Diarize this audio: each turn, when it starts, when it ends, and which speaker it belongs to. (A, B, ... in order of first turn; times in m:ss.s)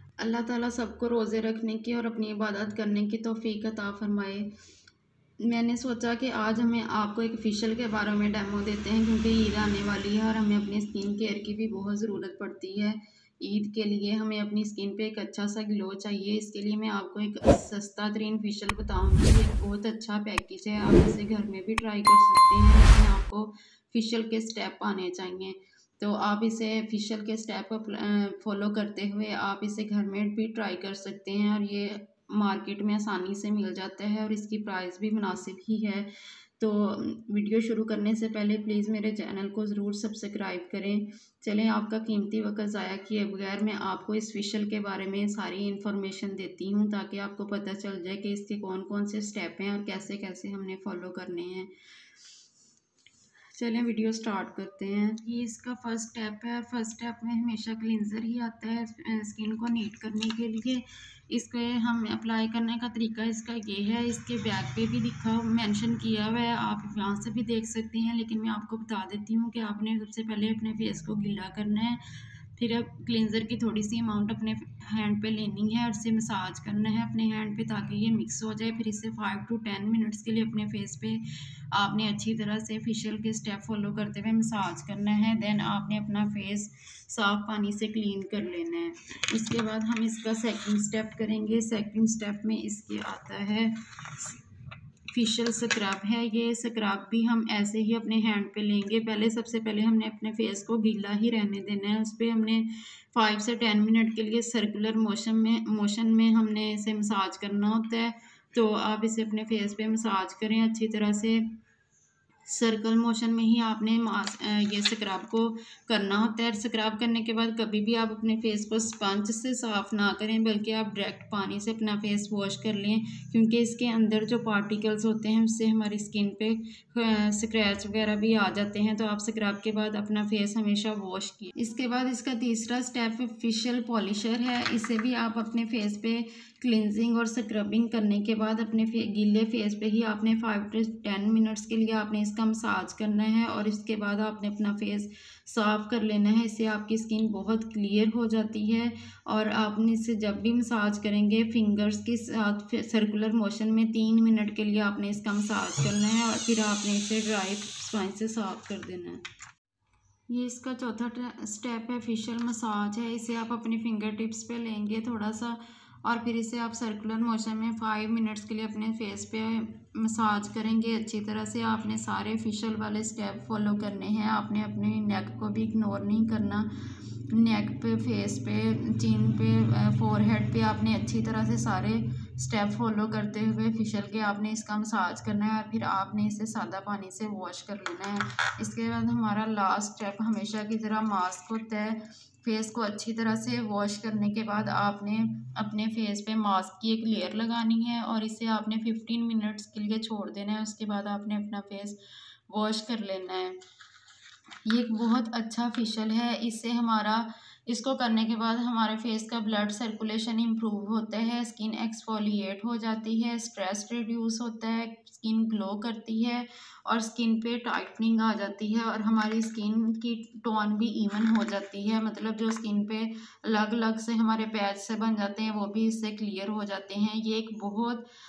0:00.2-0:04.5 A
0:05.4-0:51.7 A
0:53.5-1:12.0 A
1:12.6-1:34.3 A
1:35.1-1:51.6 A
1:52.5-2:39.2 A
2:40.3-2:56.7 A
2:57.3-3:23.6 A
3:24.6-3:48.1 A